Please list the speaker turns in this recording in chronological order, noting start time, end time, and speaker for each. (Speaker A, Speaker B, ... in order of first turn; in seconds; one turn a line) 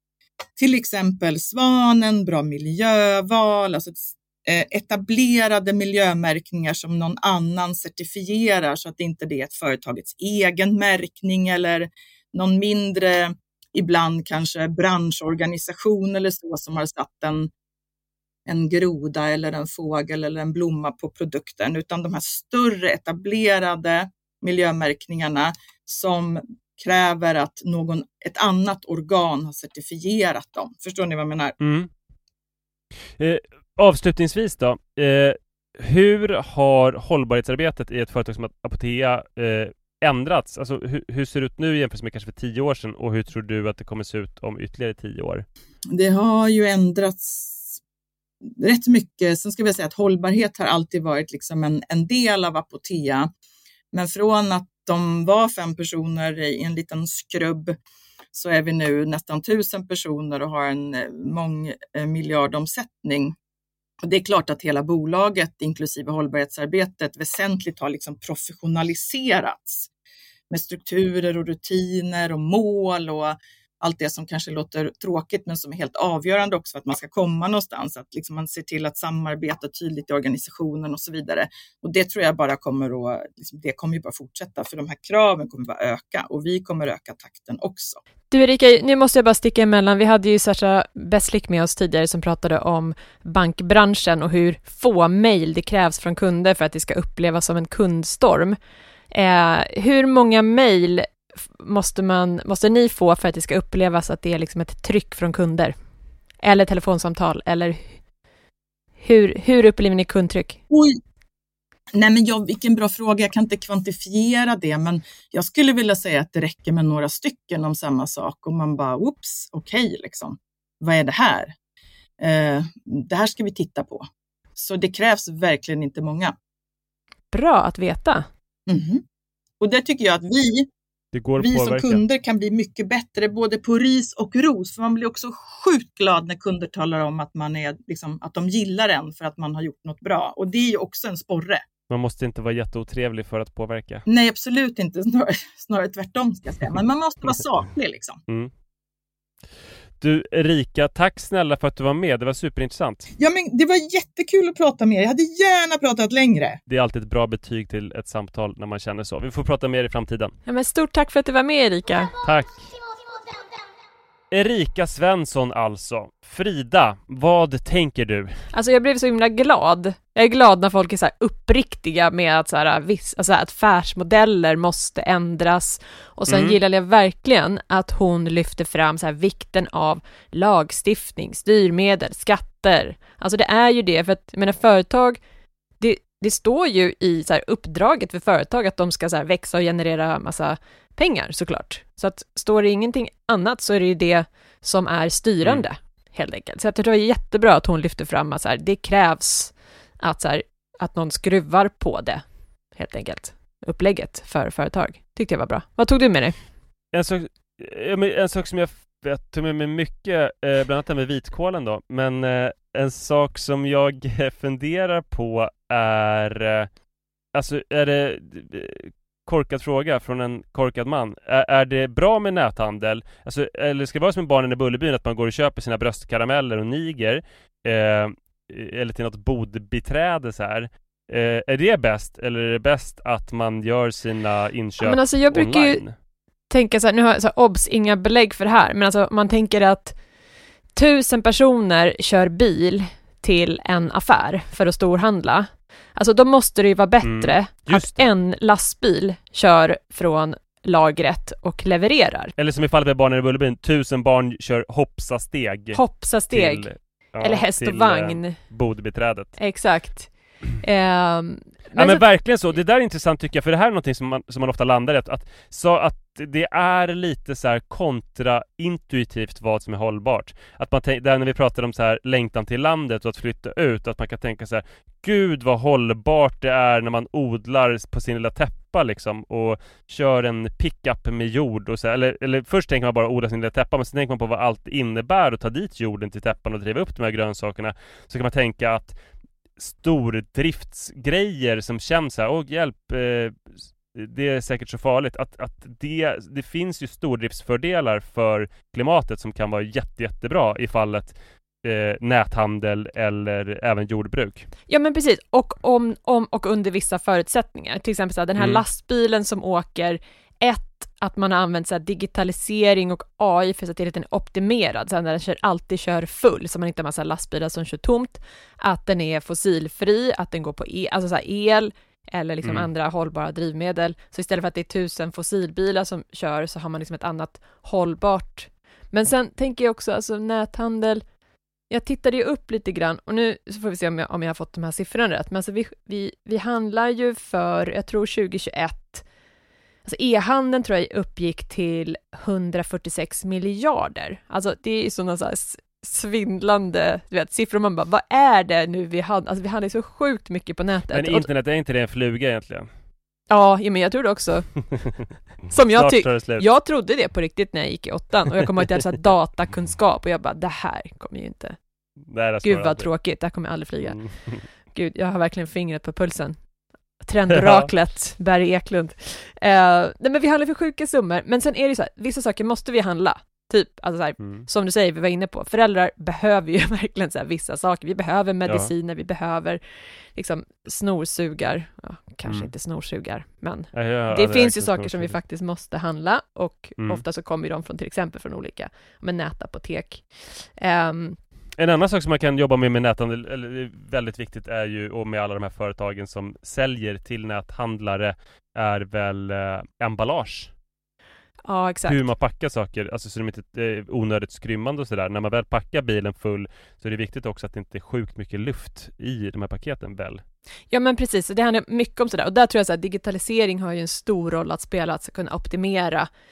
Speaker A: 0.6-17.5
Speaker A: 18.4-31.6
Speaker B: 31.6-31.9
Speaker B: 33.2-45.4
Speaker A: 45.9-47.8
Speaker A: 48.5-53.3
Speaker A: 53.9-57.8
Speaker A: 58.3-63.4
Speaker A: 64.0-69.9
Speaker A: 70.5-88.0
Speaker C: 88.3-98.6
Speaker C: 99.1-105.7
Speaker C: 106.4-108.0
Speaker C: 109.0-110.6
Speaker A: 110.7-111.0
Speaker A: 111.9-121.5
Speaker A: 122.2-126.3
Speaker C: 127.3-128.2
Speaker A: 128.7-129.0
Speaker A: 129.6-130.7
Speaker B: 131.1-132.0
Speaker A: 131.4-141.6
Speaker B: 141.9-144.1
Speaker A: 144.1-148.2
Speaker B: 150.0-153.1
Speaker A: 153.2-156.6
Speaker B: 156.7-160.3
Speaker C: 160.4-162.2
Speaker B: 162.2-162.7
Speaker B: 164.3-168.4
Speaker C: 168.5-185.2
Speaker B: 176.3-176.6
Speaker C: 185.8-206.4
Speaker B: 206.9-216.7
Speaker B: 217.3-235.9
Speaker C: 234.8-235.8
Speaker C: 236.5-240.0
Speaker C: 240.7-252.3
Speaker B: 247.0-248.1
Speaker B: 252.4-259.4
Speaker C: 255.7-258.4
Speaker C: 259.4-262.0
Speaker B: 261.7-289.0
Speaker B: 289.6-304.5
Speaker C: 304.7-331.0
Speaker B: 308.4-308.6
Speaker C: 331.7-339.0
Speaker C: 339.8-351.3
Speaker B: 350.9-352.7
Speaker C: 353.3-361.6
Speaker B: 355.7-356.4
Speaker B: 362.1-362.9
Speaker C: 362.4-366.5
Speaker B: 363.9-364.4
Speaker C: 367.0-379.6
Speaker B: 367.3-367.7
Speaker B: 374.2-374.5
Speaker B: 378.4-378.7
Speaker C: 380.1-391.2
Speaker B: 382.2-382.5
Speaker B: 383.7-385.2
Speaker B: 386.8-387.0
Speaker B: 391.6-400.5
Speaker C: 401.4-402.1
Speaker B: 401.9-410.2
Speaker C: 410.7-416.1